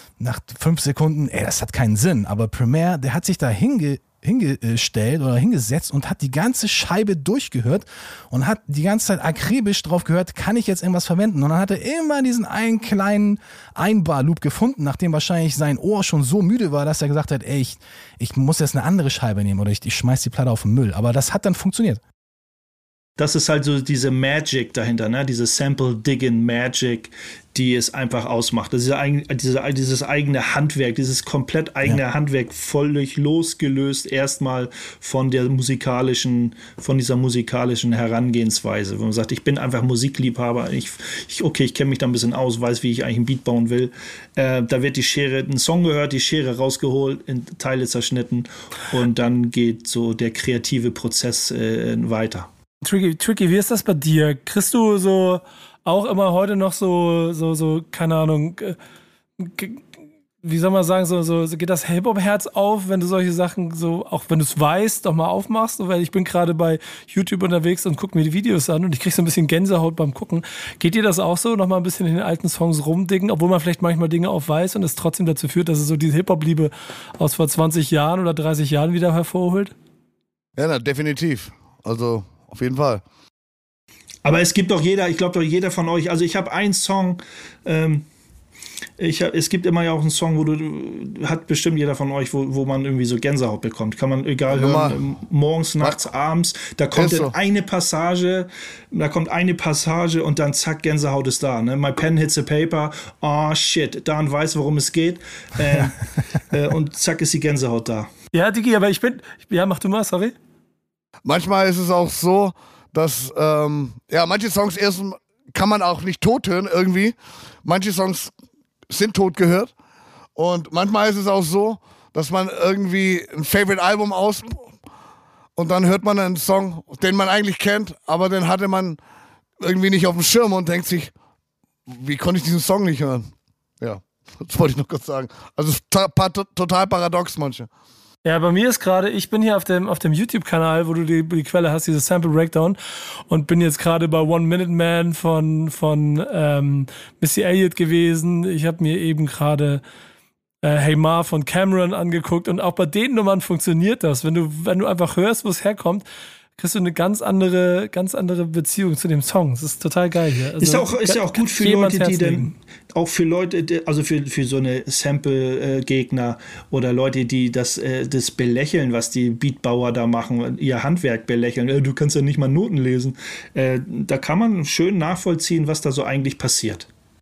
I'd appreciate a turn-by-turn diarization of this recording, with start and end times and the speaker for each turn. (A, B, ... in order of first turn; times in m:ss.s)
0:00.2-0:22.0 A
0:23.2-0:52.5 B
0:52.8-0:58.8 C
0:59.4-0:59.8 C
1:00.4-1:19.7 C
1:20.6-1:23.0 D
1:24.2-1:28.0 B
1:29.0-1:48.1 B
1:34.5-1:35.0 D
1:37.0-1:37.3 D
1:48.3-1:50.3 C
1:51.2-1:58.3 D
1:58.9-1:59.7 D
2:00.4-2:04.7 D
2:05.6-2:09.0 D
2:09.6-2:11.1 D
2:11.9-2:17.7 D
2:18.2-2:29.8 C
2:30.6-2:36.0 C
2:36.6-2:42.5 C
2:40.6-2:56.9 B